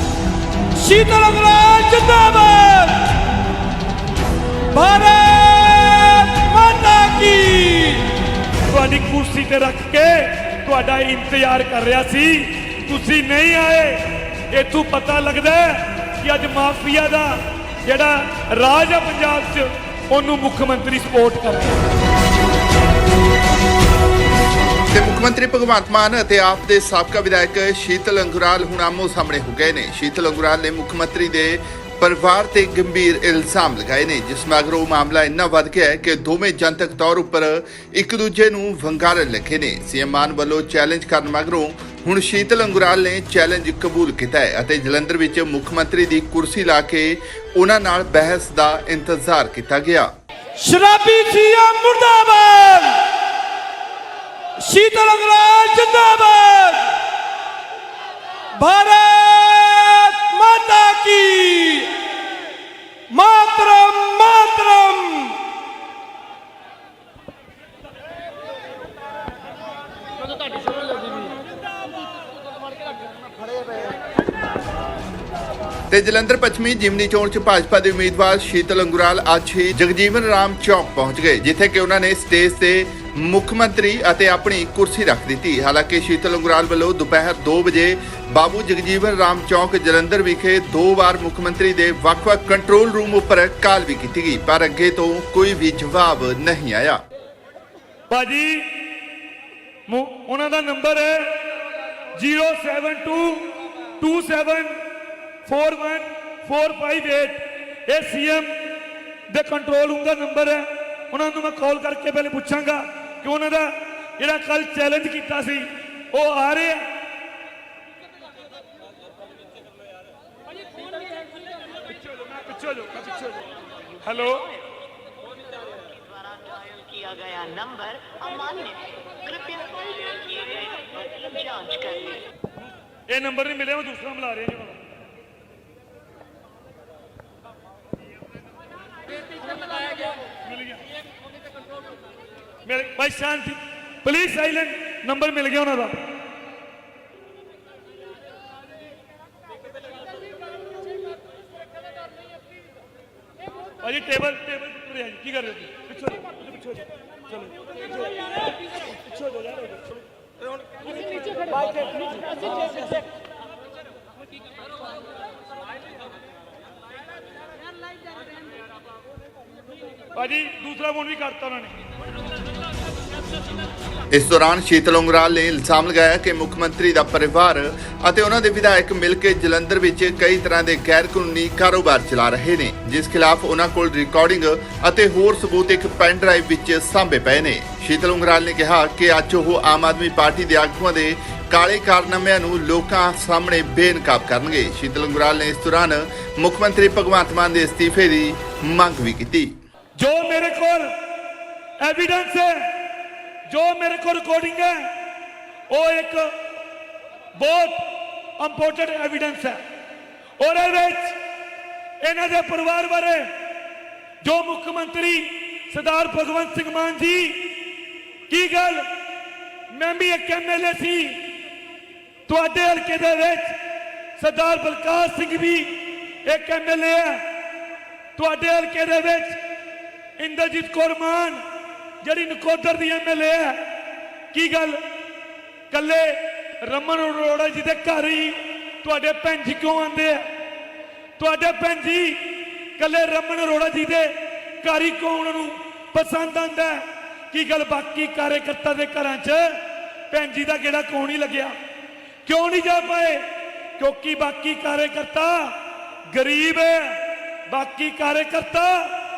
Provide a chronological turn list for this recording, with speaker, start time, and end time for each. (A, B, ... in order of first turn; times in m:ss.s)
0:00.8-0:03.0 A
0:00.9-0:02.2 B
0:04.8-0:07.5 B
0:04.8-0:08.0 A
0:08.7-0:21.8 A
0:24.9-0:50.1 C
0:50.6-0:52.9 A
0:50.7-0:52.8 B
0:54.7-0:56.7 B
0:54.7-0:56.8 A
0:58.6-1:01.9 B
0:58.7-0:59.1 A
1:03.1-1:05.3 B
1:15.9-1:37.0 C
1:38.1-1:38.8 A
1:39.9-1:41.4 A
1:42.1-1:43.5 A
1:44.0-1:44.8 A
1:45.4-1:48.5 A
1:49.3-1:56.9 A
2:02.0-2:03.4 A
2:04.0-2:04.6 A
2:06.1-2:12.2 D
2:13.1-2:14.8 A
2:22.6-2:26.0 A
2:33.8-2:36.4 A
2:50.1-2:51.8 A
2:54.1-3:19.5 C
3:20.0-3:20.9 A
3:21.8-3:22.7 A
3:23.5-3:24.9 A
3:25.7-3:26.3 A
3:27.4-3:27.8 A
3:28.4-3:29.6 A
3:30.4-3:31.2 A
3:32.0-3:33.3 A
3:34.2-3:37.5 A
3:38.3-3:38.8 A
3:39.7-3:41.2 A
3:42.3-3:43.5 A
3:44.2-3:47.2 A
3:48.2-3:49.4 A
3:50.2-3:51.4 A
3:52.0-3:53.6 A
3:54.3-3:54.8 A
3:55.7-4:00.2 A
4:01.2-4:02.2 A
4:02.8-4:09.6 A
4:10.1-4:11.5 A
4:12.2-4:13.2 A
4:13.8-4:15.6 A
4:16.1-4:18.9 A